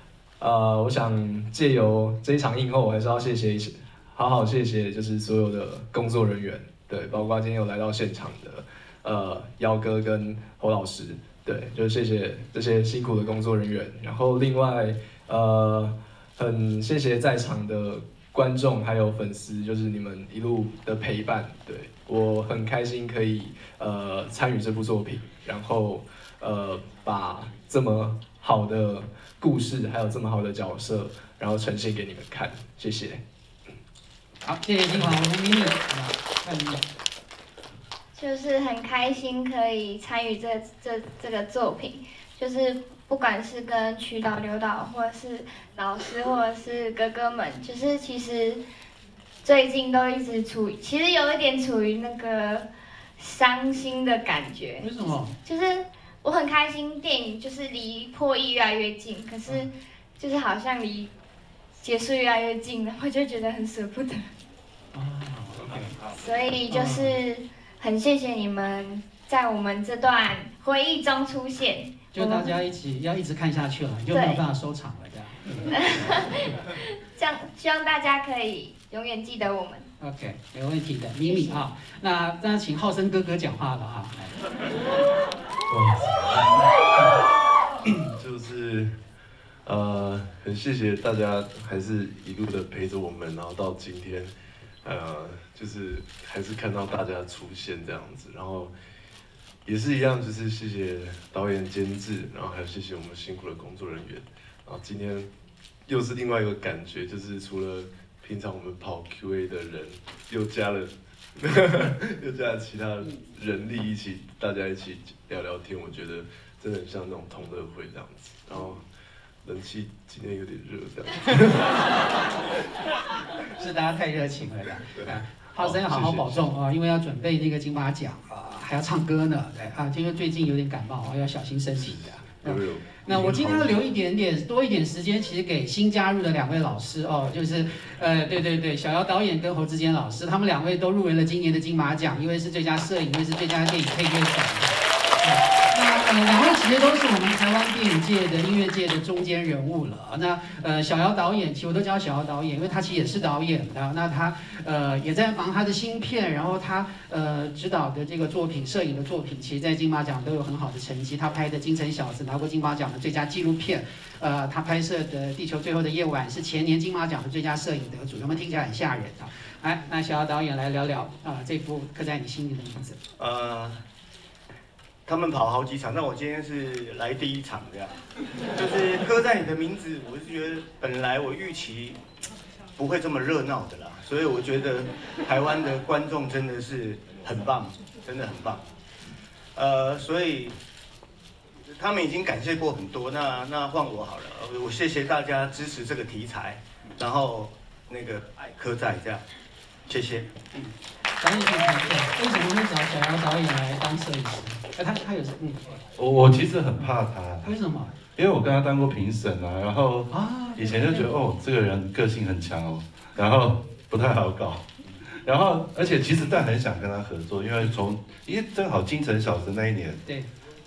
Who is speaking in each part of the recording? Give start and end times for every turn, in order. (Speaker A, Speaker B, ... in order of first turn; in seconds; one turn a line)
Speaker A: 0.4-33.2
Speaker B: 34.4-36.8
Speaker C: 38.1-48.6
Speaker C: 49.4-52.7
Speaker C: 53.2-61.1
Speaker B: 54.8-55.3
Speaker C: 61.8-64.3
Speaker B: 64.9-66.0
Speaker C: 66.1-72.5
Speaker B: 66.7-67.1
Speaker B: 72.1-75.7
Speaker C: 74.1-74.4
Speaker C: 75.7-79.9
Speaker B: 80.0-84.3
Speaker C: 81.3-81.6
Speaker D: 85.7-87.1
Speaker D: 87.8-89.0
Speaker D: 89.7-98.7
Speaker D: 99.7-105.3
Speaker D: 105.9-118.8
Speaker D: 119.4-121.8
Speaker B: 123.6-173.0
Speaker D: 125.9-126.4
Speaker D: 131.8-133.8
Speaker E: 173.2-173.8
Speaker E: 175.1-177.9
Speaker E: 178.5-182.0
Speaker E: 182.8-188.6
Speaker E: 189.6-190.6
Speaker E: 191.7-199.2
Speaker E: 199.9-200.3
Speaker B: 200.5-205.8
Speaker F: 206.0-207.5
Speaker B: 207.4-207.9
Speaker F: 208.2-220.0
Speaker B: 210.1-211.1